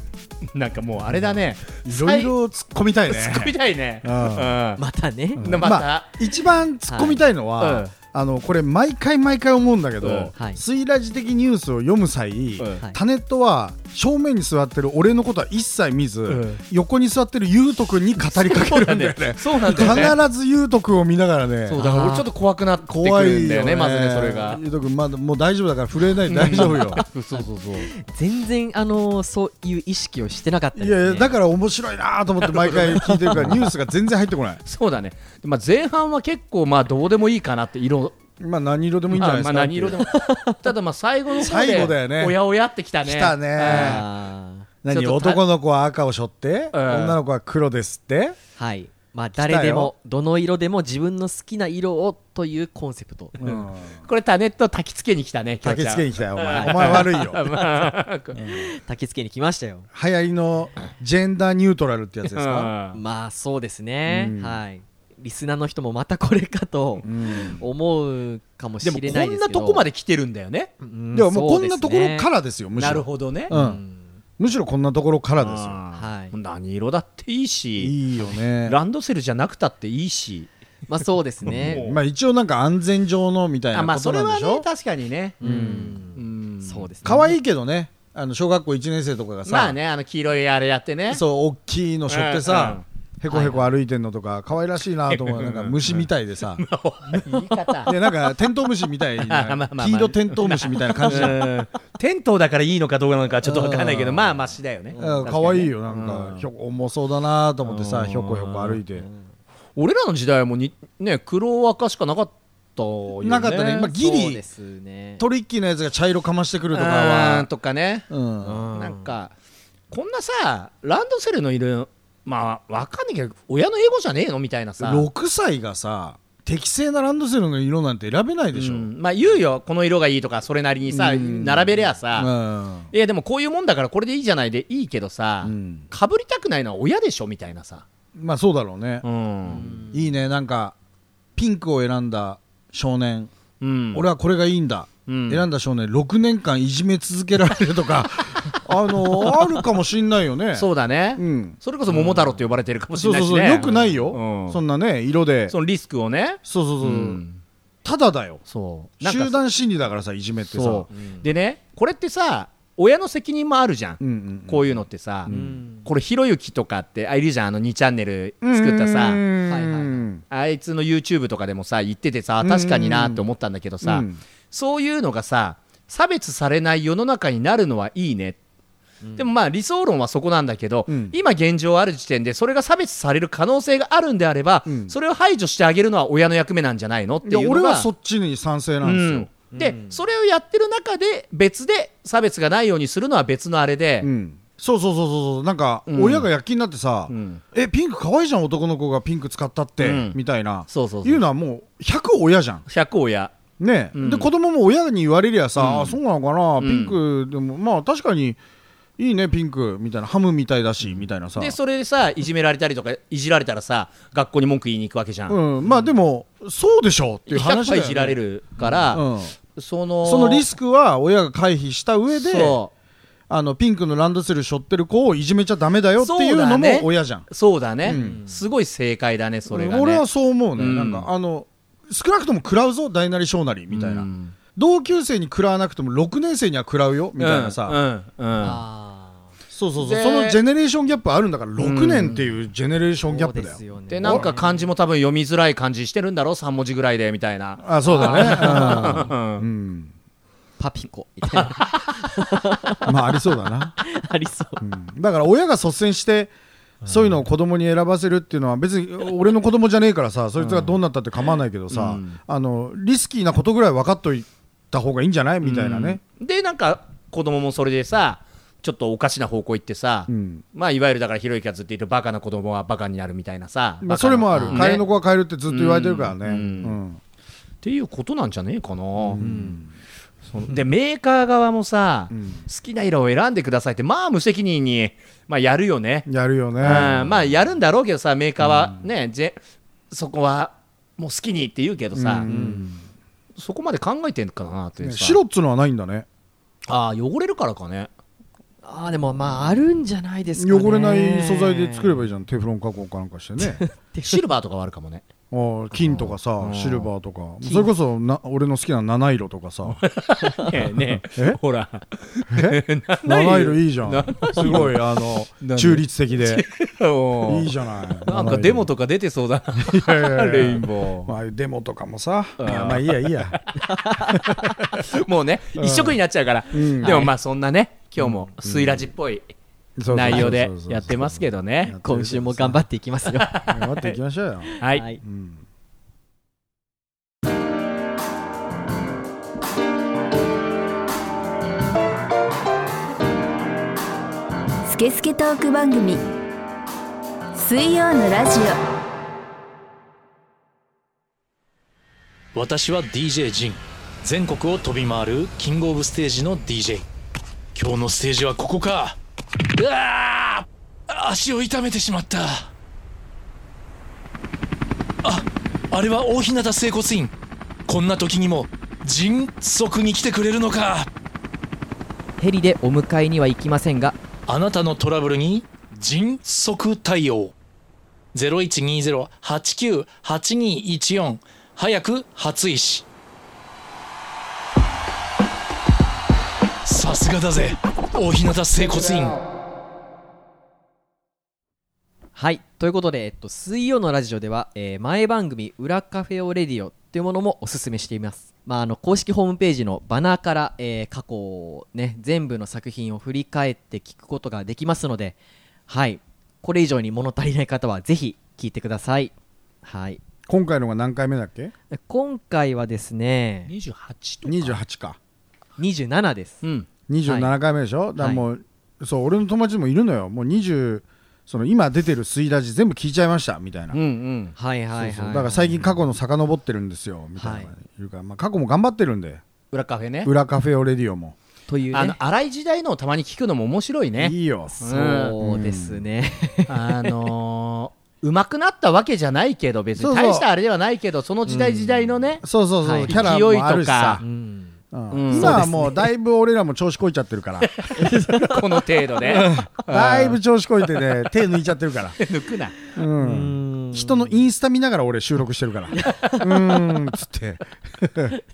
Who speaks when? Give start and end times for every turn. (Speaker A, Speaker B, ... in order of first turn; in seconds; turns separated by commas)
Speaker A: 0.5-2.3, Speaker B: 1.1-4.5, Speaker A: 3.1-4.8, Speaker C: 4.8-5.6, Speaker A: 5.4-6.1, Speaker B: 5.4-21.8, Speaker C: 6.9-7.2, Speaker A: 7.6-7.9, Speaker A: 10.0-10.3, Speaker A: 16.3-16.6, Speaker A: 18.3-20.2, Speaker A: 21.7-24.6, Speaker C: 21.8-22.3, Speaker B: 22.9-27.0, Speaker A: 26.3-27.9, Speaker C: 26.5-31.3, Speaker B: 30.8-34.6, Speaker A: 32.4-33.5, Speaker C: 33.0-33.6, Speaker A: 34.6-38.2, Speaker B: 38.4-40.0, Speaker A: 39.1-44.1, Speaker C: 40.0-40.6, Speaker B: 41.3-42.4, Speaker B: 43.0-44.1, Speaker C: 43.6-44.7, Speaker B: 44.8-48.4, Speaker A: 44.9-45.4, Speaker A: 46.7-47.2, Speaker C: 48.6-53.4, Speaker B: 49.4-49.9, Speaker B: 53.4-54.0, Speaker A: 53.4-58.4, Speaker B: 55.6-57.4, Speaker C: 56.5-57.7, Speaker C: 58.4-59.9, Speaker B: 59.9-62.7, Speaker A: 62.2-63.0, Speaker C: 62.9-69.8, Speaker B: 64.1-64.6, Speaker B: 67.0-67.6, Speaker A: 68.8-70.7, Speaker C: 70.8-72.3, Speaker B: 71.1-73.8, Speaker A: 72.8-73.5, Speaker C: 73.5-74.1, Speaker B: 74.4-75.8, Speaker A: 75.4-78.0, Speaker C: 76.0-76.3, Speaker B: 77.8-78.8, Speaker A: 78.7-80.5, Speaker C: 80.9-81.8, Speaker B: 81.5-84.7, Speaker A: 81.5-82.0, Speaker A: 83.7-86.9, Speaker C: 85.4-87.3, Speaker B: 85.4-86.0, Speaker B: 87.0-89.8, Speaker A: 89.5-91.2, Speaker B: 91.1-101.4, Speaker A: 92.1-92.8, Speaker C: 93.3-93.6, Speaker A: 95.1-98.3, Speaker A: 99.2-106.4, Speaker C: 101.1-101.5, Speaker B: 103.4-104.4, Speaker C: 104.9-105.6, Speaker B: 105.0-109.1, Speaker A: 107.6-108.8, Speaker C: 109.0-109.3, Speaker A: 109.8-113.9, Speaker B: 113.2-114.4, Speaker C: 113.8-115.2, Speaker B: 115.2-117.5, Speaker A: 116.7-119.3, Speaker B: 118.1-118.7, Speaker C: 118.4-119.1, Speaker A: 119.9-125.1, Speaker B: 124.8-128.9, Speaker A: 128.5-132.3, Speaker B: 130.9-132.9, Speaker A: 132.9-137.8, Speaker B: 135.4-135.9, Speaker B: 138.2-139.1, Speaker A: 139.0-139.7, Speaker C: 139.5-140.2, Speaker B: 139.6-140.8, Speaker B: 141.4-143.3, Speaker A: 143.6-144.1, Speaker B: 143.9-152.2, Speaker A: 145.1-145.4, Speaker A: 149.2-149.6, Speaker A: 150.5-154.6, Speaker B: 152.9-155.6, Speaker A: 155.5-157.4, Speaker B: 156.4-157.2, Speaker B: 157.8-158.4, Speaker A: 158.5-159.4, Speaker B: 159.0-160.9, Speaker A: 160.5-165.3, Speaker C: 160.9-161.3, Speaker B: 164.0-165.6, Speaker C: 165.3-165.9, Speaker A: 165.8-169.2, Speaker B: 168.4-170.2, Speaker C: 169.5-170.0, Speaker A: 170.3-178.4, Speaker B: 172.4-173.2, Speaker B: 173.8-174.2, Speaker A: 179.2-187.9, Speaker B: 180.9-181.2, Speaker B: 184.7-184.9, Speaker B: 187.2-189.3, Speaker A: 188.8-194.1, Speaker C: 189.5-190.0, Speaker B: 194.0-202.6, Speaker A: 195.9-196.3, Speaker A: 197.1-197.4, Speaker A: 199.8-200.2, Speaker A: 200.7-201.2, Speaker A: 202.7-203.3, Speaker B: 203.6-208.4, Speaker A: 203.9-204.3, Speaker A: 205.6-206.0, Speaker A: 206.6-207.0, Speaker B: 209.0-211.6, Speaker A: 210.8-215.9, Speaker B: 215.3-219.3, Speaker A: 217.3-220.5, Speaker B: 220.0-222.6, Speaker A: 222.1-222.7, Speaker B: 223.3-227.3, Speaker A: 226.0-230.0, Speaker B: 227.8-228.2, Speaker C: 227.9-228.4, Speaker B: 229.5-237.8, Speaker A: 230.6-231.1, Speaker A: 233.7-234.3, Speaker A: 237.2-238.6, Speaker C: 238.4-239.3, Speaker B: 239.5-244.3, Speaker A: 239.8-240.4, Speaker A: 241.6-242.3, Speaker C: 243.1-244.7, Speaker A: 243.9-249.5, Speaker B: 247.6-249.9, Speaker C: 247.8-249.1, Speaker C: 250.6-252.9, Speaker A: 251.3-252.0, Speaker B: 252.8-253.8, Speaker C: 253.8-254.6, Speaker B: 254.6-256.3, Speaker A: 256.8-257.1, Speaker B: 256.8-266.0, Speaker A: 260.4-260.8, Speaker A: 261.7-262.2, Speaker A: 265.4-274.9, Speaker B: 270.1-270.4, Speaker B: 273.8-277.0, Speaker C: 274.3-274.7, Speaker A: 275.5-276.8, Speaker A: 277.6-279.2, Speaker B: 279.0-279.7, Speaker C: 279.2-279.6, Speaker A: 280.3-286.1, Speaker B: 282.1-282.4, Speaker B: 286.1-287.1, Speaker A: 286.6-289.4, Speaker B: 288.4-288.8, Speaker A: 289.9-292.3, Speaker B: 291.9-292.8, Speaker C: 292.3-292.7, Speaker A: 293.4-295.2, Speaker B: 294.8-296.1, Speaker A: 296.7-297.9, Speaker C: 298.6-302.1, Speaker B: 300.4-303.6, Speaker C: 303.4-304.2, Speaker A: 304.0-305.1, Speaker B: 305.3-309.8, Speaker A: 306.4-306.9, Speaker C: 307.4-307.7, Speaker A: 309.7-314.8, Speaker C: 310.2-310.5, Speaker B: 310.9-311.4, Speaker B: 312.3-316.4, Speaker A: 315.4-321.1, Speaker B: 317.2-318.7, Speaker B: 319.6-323.4, Speaker A: 322.4-323.4, Speaker C: 323.6-324.2, Speaker B: 324.1-324.8, Speaker A: 324.2-329.2, Speaker B: 325.6-326.0, Speaker B: 326.5-327.1, Speaker C: 326.8-327.1, Speaker B: 328.0-328.9, Speaker B: 329.8-332.6, Speaker A: 329.9-331.8, Speaker C: 331.8-333.3, Speaker A: 333.2-333.9, Speaker B: 333.4-335.4, Speaker C: 334.5-335.0, Speaker D: 344.6-346.0, Speaker D: 347.4-348.6, Speaker E: 352.3-356.9, Speaker E: 357.5-359.0, Speaker E: 359.5-362.5, Speaker E: 365.0-367.1, Speaker E: 367.7-370.9, Speaker C: 372.2-374.0, Speaker E: 374.3-377.3, Speaker E: 378.1-382.9, Speaker E: 386.6-389.2, Speaker C: 392.1-405.2, Speaker C: 405.7-409.1, Speaker C: 409.6-410.0, Speaker B: 410.3-411.5, Speaker C: 411.7-413.5, Speaker A: 413.5-414.6, Speaker B: 414.2-415.0, Speaker C: 415.6-416.4, Speaker B: 416.9-423.8, Speaker C: 417.1-417.3, Speaker A: 423.7-424.4, Speaker C: 424.4-425.6, Speaker B: 424.8-429.2, Speaker C: 427.2-427.5, Speaker A: 429.5-430.1, Speaker B: 430.0-431.2, Speaker C: 431.5-432.0, Speaker A: 431.7-435.1, Speaker B: 434.0-434.5, Speaker C: 434.5-436.9, Speaker B: 435.2-435.8, Speaker A: 436.5-442.2, Speaker B: 439.8-440.3, Speaker C: 441.3-441.7, Speaker B: 442.2-444.0, Speaker C: 442.6-443.0, Speaker A: 442.9-444.0, Speaker C: 444.0-444.6, Speaker B: 444.7-447.5, Speaker A: 444.9-445.7, Speaker C: 445.1-445.9, Speaker A: 447.4-450.2, Speaker C: 447.8-449.2, Speaker B: 449.1-452.0, Speaker A: 450.7-451.1, Speaker A: 452.0-452.6, Speaker C: 452.7-454.2, Speaker B: 452.7-458.1, Speaker C: 455.7-456.6